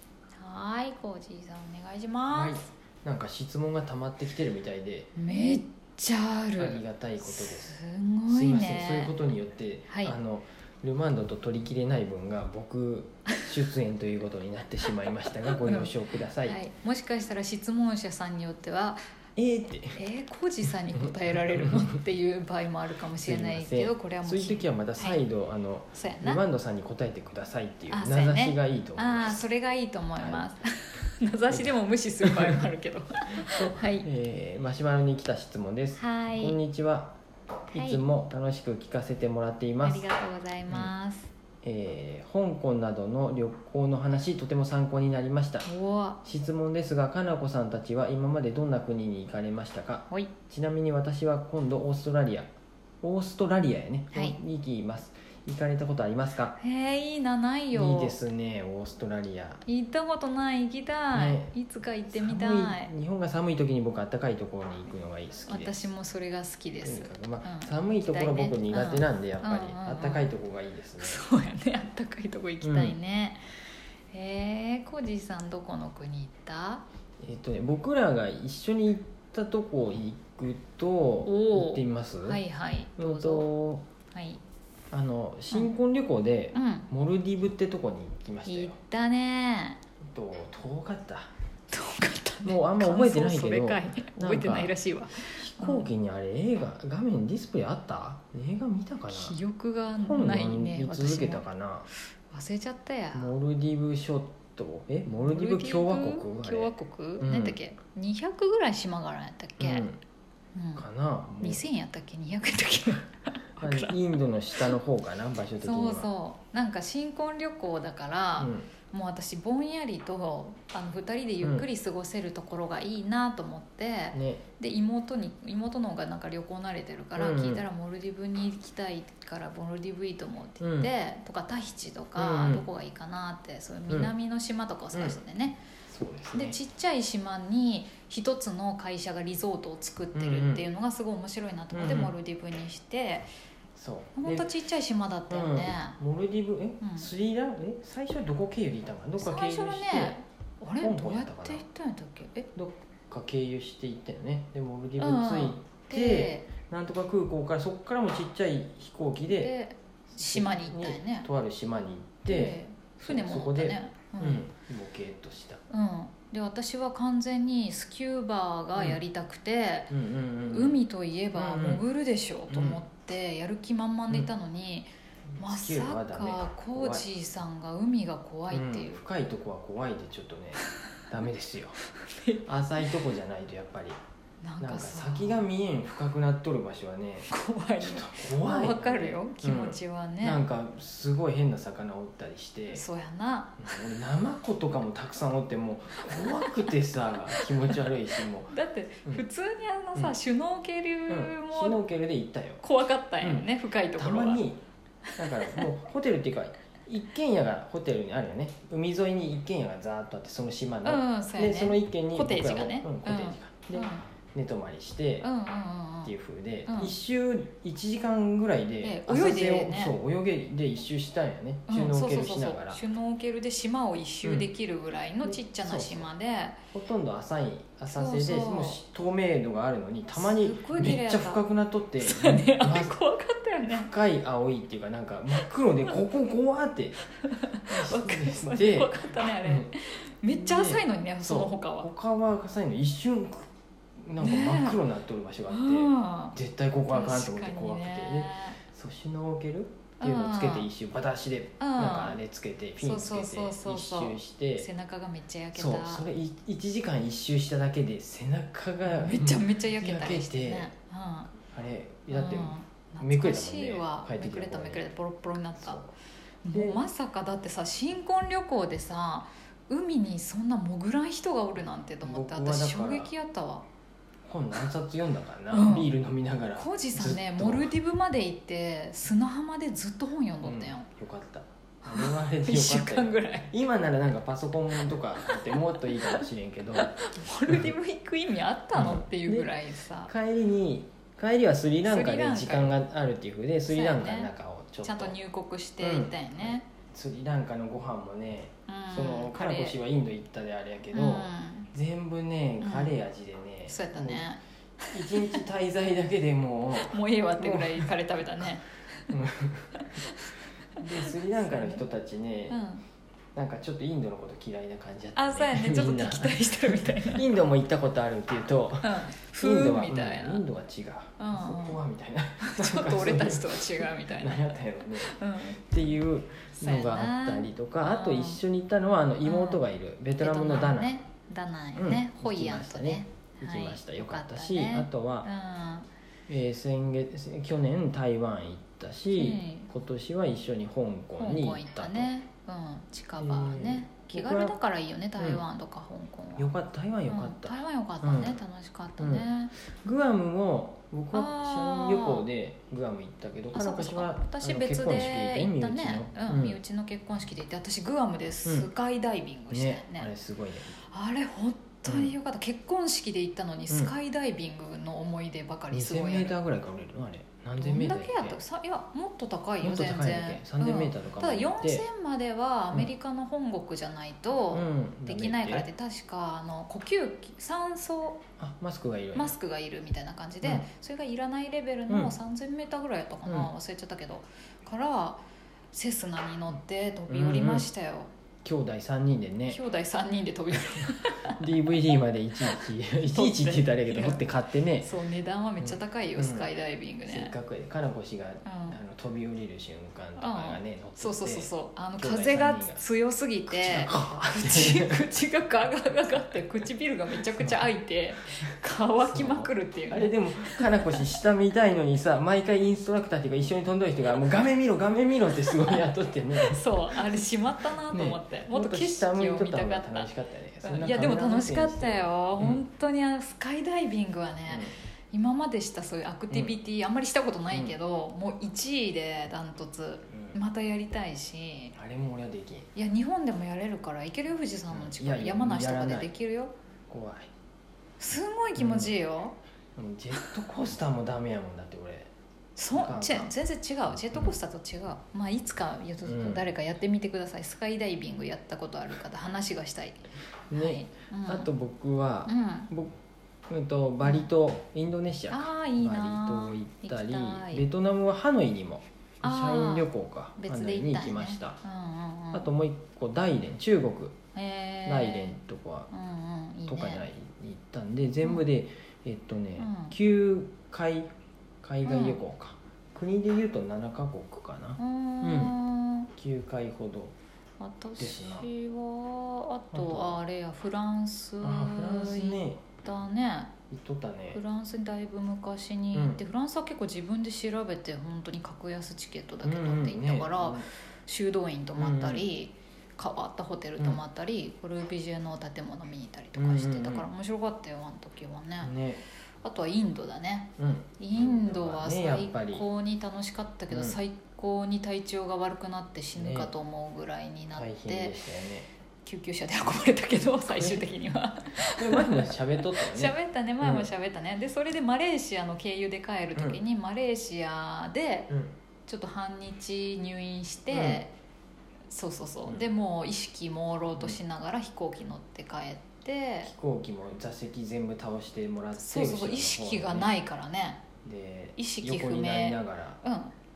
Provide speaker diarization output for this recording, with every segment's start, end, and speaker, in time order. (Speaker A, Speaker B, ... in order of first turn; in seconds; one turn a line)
Speaker A: 0.4-2.6
Speaker B: 2.3-5.1
Speaker A: 5.2-9.2
Speaker B: 6.6-16.6
Speaker A: 9.9-10.2
Speaker A: 14.9-19.0
Speaker B: 19.4-20.0
Speaker A: 19.9-25.2
Speaker B: 21.0-21.9
Speaker B: 23.2-29.4
Speaker A: 25.9-26.4
Speaker A: 27.9-34.1
Speaker B: 30.2-30.5
Speaker B: 31.5-32.6
Speaker B: 33.5-37.2
Speaker A: 36.0-36.5
Speaker A: 37.7-38.0
Speaker B: 37.7-40.1
Speaker A: 39.8-41.3
Speaker B: 41.6-45.7
Speaker A: 45.6-46.2
Speaker B: 46.2-52.5
Speaker B: 53.0-56.6
Speaker A: 56.6-58.2
Speaker B: 57.7-59.6
Speaker A: 59.6-62.9
Speaker B: 61.1-61.5
Speaker B: 62.1-65.9
Speaker A: 65.5-70.3
Speaker B: 66.8-71.2
Speaker A: 71.0-73.4
Speaker B: 72.6-73.0
Speaker A: 74.1-76.8
Speaker B: 77.2-82.4
Speaker A: 81.2-83.5
Speaker B: 83.0-83.8
Speaker A: 84.1-84.4
Speaker B: 84.9-88.8
Speaker A: 86.5-86.9
Speaker A: 88.5-89.8
Speaker B: 90.0-91.3
Speaker A: 91.7-95.9
Speaker B: 92.4-99.4
Speaker A: 99.1-101.4
Speaker B: 100.0-101.9
Speaker A: 102.3-103.3
Speaker B: 103.1-107.6
Speaker A: 105.1-109.8
Speaker B: 109.6-110.0
Speaker A: 110.5-110.8
Speaker B: 110.8-111.6
Speaker A: 111.4-114.0
Speaker B: 113.6-116.1
Speaker A: 115.6-135.6
Speaker B: 118.4-118.7
Speaker B: 121.4-121.7
Speaker B: 124.1-124.4
Speaker B: 127.2-127.7
Speaker B: 130.6-130.9
Speaker B: 132.2-132.7
Speaker B: 133.9-134.1
Speaker B: 134.9-135.2
Speaker B: 135.9-136.6
Speaker A: 136.3-143.3
Speaker B: 140.1-140.7
Speaker B: 141.7-142.1
Speaker B: 143.8-144.5
Speaker A: 144.2-145.9
Speaker B: 145.3-150.2
Speaker A: 146.8-147.1
Speaker A: 149.2-152.5
Speaker B: 150.8-151.6
Speaker B: 152.5-159.6
Speaker A: 155.0-156.5
Speaker A: 159.2-161.3
Speaker B: 160.1-165.6
Speaker A: 162.3-164.4
Speaker A: 165.7-169.9
Speaker B: 168.8-169.0
Speaker B: 169.9-170.8
Speaker A: 170.5-179.0
Speaker B: 171.3-171.8
Speaker B: 172.5-172.8
Speaker B: 175.3-177.1
Speaker B: 178.5-181.8
Speaker A: 182.0-182.4
Speaker B: 182.4-184.0
Speaker A: 184.4-185.5
Speaker B: 184.6-187.3
Speaker A: 187.3-190.4
Speaker B: 187.8-192.8
Speaker A: 192.7-193.9
Speaker B: 193.6-198.5
Speaker A: 196.0-196.7
Speaker A: 197.3-197.8
Speaker A: 198.5-201.8
Speaker B: 201.1-202.6
Speaker A: 202.6-204.4
Speaker B: 203.2-204.6
Speaker A: 205.1-205.7
Speaker B: 205.2-215.3
Speaker A: 210.8-214.1
Speaker A: 215.2-216.1
Speaker B: 216.0-222.8
Speaker A: 216.7-216.9
Speaker A: 218.8-219.9
Speaker A: 221.7-226.6
Speaker B: 224.2-224.5
Speaker B: 225.2-226.1
Speaker B: 226.7-232.9
Speaker A: 227.9-228.8
Speaker A: 230.1-231.4
Speaker A: 232.0-233.9
Speaker B: 233.7-237.0
Speaker A: 235.4-236.0
Speaker A: 237.2-241.9
Speaker B: 237.7-239.7
Speaker B: 240.3-243.5
Speaker B: 244.0-254.7
Speaker A: 244.2-244.8
Speaker A: 245.5-246.3
Speaker A: 246.9-248.6
Speaker A: 250.0-250.7
Speaker A: 251.6-252.2
Speaker A: 252.8-256.1
Speaker B: 255.5-260.7
Speaker A: 258.9-261.3
Speaker B: 261.5-264.8
Speaker A: 262.1-265.8
Speaker B: 265.6-265.9
Speaker A: 266.4-273.7
Speaker B: 266.5-266.8
Speaker B: 272.0-273.1
Speaker B: 274.2-277.7
Speaker A: 275.5-275.9
Speaker A: 276.6-280.9
Speaker B: 280.4-286.9
Speaker A: 281.8-283.5
Speaker A: 285.2-286.2
Speaker A: 286.8-290.1
Speaker B: 288.7-295.1
Speaker A: 291.8-292.8
Speaker A: 293.7-294.3
Speaker A: 294.8-296.7
Speaker B: 295.8-304.3
Speaker A: 298.7-299.8
Speaker A: 300.9-301.7
Speaker A: 302.6-303.0
Speaker A: 303.7-305.4
Speaker B: 304.9-307.9
Speaker A: 306.8-309.1
Speaker B: 309.1-309.8
Speaker A: 309.8-310.3
Speaker B: 310.8-312.6
Speaker A: 311.0-311.8
Speaker A: 312.5-312.8
Speaker B: 313.3-330.9
Speaker A: 315.1-317.2
Speaker A: 318.8-320.4
Speaker A: 321.2-321.8
Speaker A: 322.4-325.6
Speaker A: 326.6-328.4
Speaker A: 329.2-329.6
Speaker A: 330.2-335.9
Speaker B: 331.8-335.3
Speaker B: 336.3-342.1
Speaker A: 339.1-339.7
Speaker A: 341.2-346.5
Speaker B: 343.2-344.6
Speaker B: 345.2-345.4
Speaker B: 346.4-348.4
Speaker A: 347.1-349.5
Speaker B: 349.0-356.6
Speaker A: 351.1-352.2
Speaker A: 353.5-360.1
Speaker B: 359.5-360.7
Speaker A: 360.8-366.3
Speaker B: 361.9-362.1
Speaker B: 365.7-368.4
Speaker A: 367.6-378.2
Speaker B: 369.6-371.9
Speaker B: 374.5-375.7
Speaker B: 378.4-379.3
Speaker A: 379.1-385.2
Speaker B: 380.4-380.7
Speaker B: 381.9-382.1
Speaker B: 383.2-383.5
Speaker A: 385.7-388.1
Speaker B: 387.1-387.7
Speaker B: 388.4-389.6
Speaker A: 389.5-397.3
Speaker B: 390.5-394.9
Speaker B: 395.6-396.5
Speaker B: 397.1-402.8
Speaker A: 398.4-398.8
Speaker A: 400.2-411.1
Speaker B: 403.5-405.1
Speaker B: 407.4-407.7
Speaker B: 409.0-417.2
Speaker A: 416.4-420.1
Speaker B: 417.9-422.6
Speaker A: 420.6-431.8
Speaker B: 424.5-424.7
Speaker B: 426.3-426.6
Speaker B: 427.5-427.8
Speaker B: 430.1-430.4
Speaker B: 431.7-432.7
Speaker A: 432.7-436.5
Speaker B: 434.7-436.1
Speaker B: 436.9-437.3
Speaker A: 438.0-439.4
Speaker B: 438.6-438.9
Speaker B: 439.8-442.1
Speaker A: 442.6-451.5
Speaker B: 442.7-443.3
Speaker B: 446.0-446.4
Speaker B: 450.5-452.9
Speaker A: 452.2-452.7
Speaker B: 453.5-461.6
Speaker A: 454.0-454.3
Speaker A: 455.3-457.6
Speaker A: 459.2-462.5
Speaker B: 462.3-464.1
Speaker A: 464.3-465.4
Speaker B: 464.9-465.9
Speaker A: 465.9-467.0
Speaker B: 466.7-471.1
Speaker A: 469.6-469.9
Speaker B: 471.6-475.5
Speaker A: 471.8-472.2
Speaker A: 474.8-476.1
Speaker B: 476.1-477.1
Speaker A: 477.6-483.5
Speaker B: 478.0-478.5
Speaker B: 479.7-480.2
Speaker B: 481.4-482.7
Speaker B: 483.7-484.4
Speaker A: 484.3-498.7
Speaker B: 485.9-486.2
Speaker B: 489.4-490.7
Speaker B: 491.8-492.3
Speaker B: 496.4-497.1
Speaker B: 498.6-499.0
Speaker A: 499.4-508.2
Speaker B: 500.6-502.6
Speaker B: 503.7-504.0
Speaker B: 506.2-506.5
Speaker B: 507.5-508.7
Speaker A: 509.0-518.3
Speaker B: 510.5-510.9
Speaker B: 511.6-513.9
Speaker B: 516.3-516.6
Speaker A: 518.9-521.1
Speaker B: 520.7-521.0
Speaker A: 521.9-526.5
Speaker B: 526.4-530.2
Speaker A: 528.8-530.8
Speaker B: 531.0-533.0
Speaker A: 531.6-533.3